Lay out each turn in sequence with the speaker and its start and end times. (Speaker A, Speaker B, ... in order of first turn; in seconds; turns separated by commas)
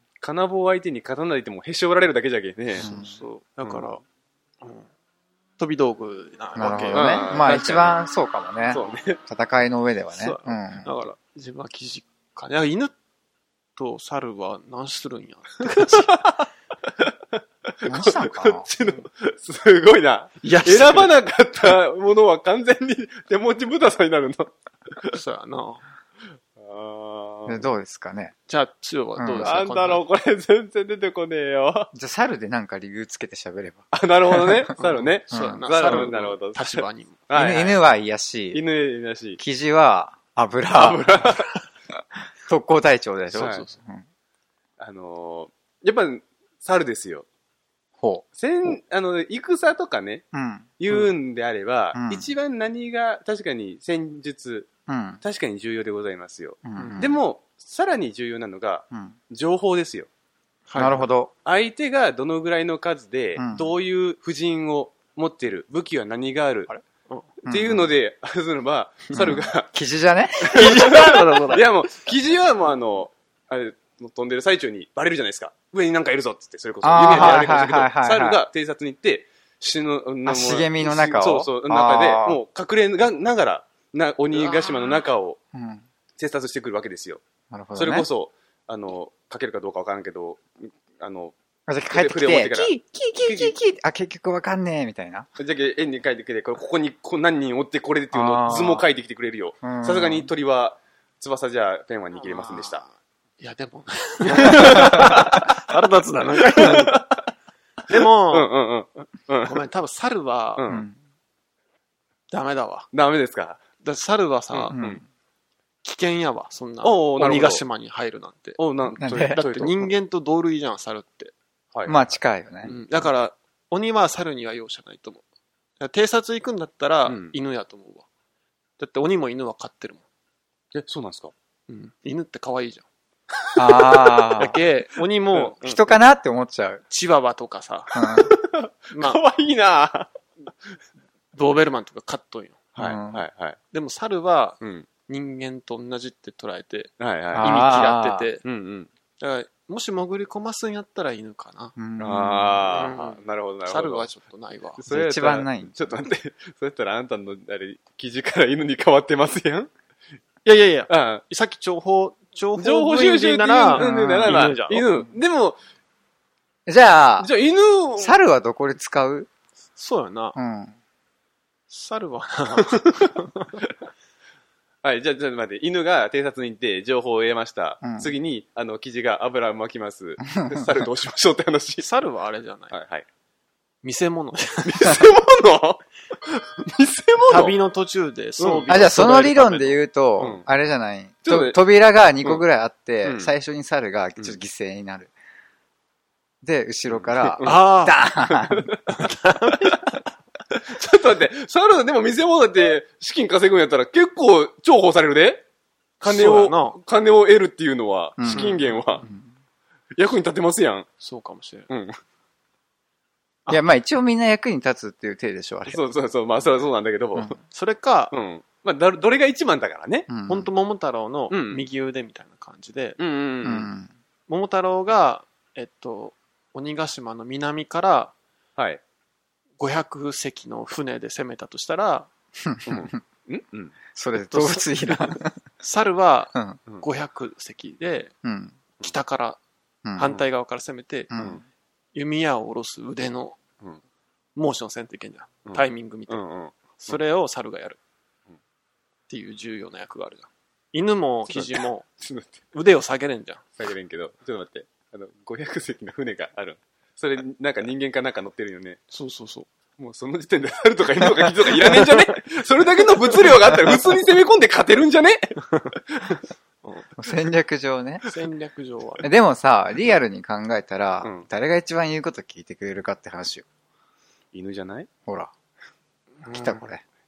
Speaker A: 0.2-2.9, Speaker B: 2.8-3.2, Speaker C: 2.8-4.0, Speaker A: 3.6-3.9, Speaker C: 4.6-4.9, Speaker C: 5.6-7.7, Speaker B: 6.6-10.9, Speaker A: 6.9-8.0, Speaker A: 8.7-9.2, Speaker C: 10.2-12.9, Speaker C: 13.8-16.2, Speaker A: 15.8-16.5, Speaker A: 17.7-25.2, Speaker B: 17.9-18.7, Speaker C: 20.4-21.1, Speaker C: 25.1-25.8, Speaker A: 26.6-27.7, Speaker B: 27.5-28.3, Speaker C: 28.5-30.0, Speaker B: 29.2-29.6, Speaker A: 29.4-31.9, Speaker B: 31.9-34.7, Speaker A: 33.9-37.8, Speaker C: 34.8-37.2, Speaker B: 35.3-36.1, Speaker B: 37.3-38.6, Speaker A: 38.5-39.4, Speaker B: 39.4-41.4, Speaker A: 40.7-41.5, Speaker B: 42.2-44.0, Speaker C: 43.3-43.8, Speaker A: 43.3-43.6, Speaker A: 44.8-47.3, Speaker B: 48.0-48.8, Speaker A: 48.4-50.2, Speaker B: 50.3-50.7, Speaker A: 50.8-54.7, Speaker B: 51.9-52.3, Speaker B: 54.9-55.2, Speaker A: 55.2-60.1, Speaker B: 56.6-57.2, Speaker C: 56.8-57.0, Speaker C: 60.7-61.1, Speaker B: 60.8-61.3, Speaker A: 61.4-66.7, Speaker B: 63.4-63.7, Speaker C: 66.7-67.3, Speaker B: 67.5-67.9, Speaker A: 67.5-69.7, Speaker B: 69.1-70.9, Speaker A: 70.4-85.4, Speaker C: 70.5-71.7, Speaker B: 76.8-78.4, Speaker C: 77.1-77.6, Speaker B: 80.2-82.4, Speaker C: 84.5-84.7, Speaker B: 85.5-85.8, Speaker A: 86.2-87.2, Speaker B: 87.5-88.1, Speaker A: 87.7-91.3, Speaker B: 91.7-95.3, Speaker A: 91.9-93.5, Speaker A: 95.4-102.8, Speaker B: 98.1-98.8, Speaker B: 99.6-100.3, Speaker C: 102.2-107.0, Speaker A: 104.4-105.6, Speaker A: 106.4-107.2, Speaker A: 107.9-109.6, Speaker C: 107.9-108.5, Speaker C: 109.5-110.6, Speaker A: 110.6-110.8, Speaker B: 110.7-111.0, Speaker C: 112.3-112.9, Speaker A: 112.9-113.6, Speaker C: 113.8-114.8, Speaker A: 114.5-115.0, Speaker B: 114.7-115.0, Speaker C: 115.8-118.6, Speaker A: 116.8-117.6, Speaker A: 118.6-119.9, Speaker B: 119.0-119.4, Speaker C: 119.3-121.3, Speaker A: 121.7-122.1, Speaker B: 121.8-122.7, Speaker C: 122.6-125.2, Speaker C: 125.8-128.1, Speaker A: 127.0-127.3, Speaker C: 128.8-130.0, Speaker A: 130.7-131.3, Speaker C: 131.7-132.8, Speaker B: 133.6-134.6, Speaker A: 133.6-134.3, Speaker C: 134.3-135.9, Speaker B: 135.6-136.8, Speaker C: 136.9-138.3, Speaker B: 137.9-138.3, Speaker A: 138.0-140.1, Speaker C: 138.9-139.2, Speaker C: 141.3-142.7, Speaker A: 142.8-143.6, Speaker B: 142.8-143.2, Speaker C: 143.7-148.4, Speaker A: 144.6-144.9, Speaker A: 147.0-147.9, Speaker B: 147.3-148.3, Speaker A: 148.4-148.9, Speaker C: 149.2-151.8, Speaker B: 151.8-152.7, Speaker A: 152.0-154.1, Speaker C: 152.7-154.8, Speaker A: 154.8-159.7, Speaker B: 154.9-155.8, Speaker C: 160.4-164.8, Speaker A: 160.9-161.2, Speaker A: 162.6-165.6, Speaker B: 163.7-164.5, Speaker B: 166.7-167.3, Speaker A: 167.2-168.2, Speaker B: 168.0-169.3, Speaker C: 169.8-170.3, Speaker B: 170.3-170.8, Speaker C: 171.7-173.6, Speaker A: 172.6-173.6, Speaker A: 174.8-181.8, Speaker B: 177.8-178.1, Speaker B: 180.2-180.8, Speaker C: 181.8-182.7, Speaker A: 182.7-183.0, Speaker C: 183.8-185.0, Speaker A: 184.6-187.6, Speaker C: 187.3-189.7, Speaker A: 188.4-189.3, Speaker B: 188.7-195.1, Speaker A: 190.2-190.4, Speaker A: 191.2-191.6, Speaker A: 193.0-193.3, Speaker B: 196.4-198.7, Speaker A: 196.9-197.6, Speaker C: 197.4-198.0, Speaker A: 198.2-198.9, Speaker C: 198.9-200.0, Speaker A: 199.6-200.0, Speaker A: 200.5-205.4, Speaker C: 206.0-206.8, Speaker A: 206.0-209.0, Speaker B: 208.2-209.3, Speaker C: 208.2-209.1, Speaker A: 210.0-210.9, Speaker C: 211.0-211.7, Speaker A: 211.7-212.0, Speaker B: 213.5-215.8, Speaker A: 215.7-217.4, Speaker C: 217.5-218.1, Speaker A: 218.1-220.1, Speaker B: 220.1-220.5, Speaker C: 220.3-223.0, Speaker A: 221.3-221.7, Speaker A: 223.0-223.7, Speaker B: 223.4-223.9, Speaker C: 224.3-228.1, Speaker C: 229.6-232.1, Speaker B: 232.4-233.0, Speaker A: 232.7-233.8, Speaker B: 233.9-235.3, Speaker C: 234.3-238.1, Speaker B: 238.2-238.6, Speaker C: 238.8-239.4, Speaker B: 239.8-240.1, Speaker C: 239.9-241.1, Speaker B: 241.1-241.4, Speaker A: 241.1-241.4, Speaker C: 241.9-243.4, Speaker C: 244.3-247.8, Speaker A: 245.4-246.9, Speaker C: 249.1-251.8, Speaker A: 251.3-252.4, Speaker C: 252.5-253.4, Speaker A: 253.6-258.8, Speaker C: 258.9-259.5, Speaker A: 259.8-266.2, Speaker C: 266.6-266.9, Speaker B: 267.0-268.1, Speaker C: 268.1-269.1, Speaker B: 269.0-273.4, Speaker A: 274.3-274.9, Speaker B: 275.1-275.3, Speaker C: 276.2-276.7, Speaker B: 276.3-276.8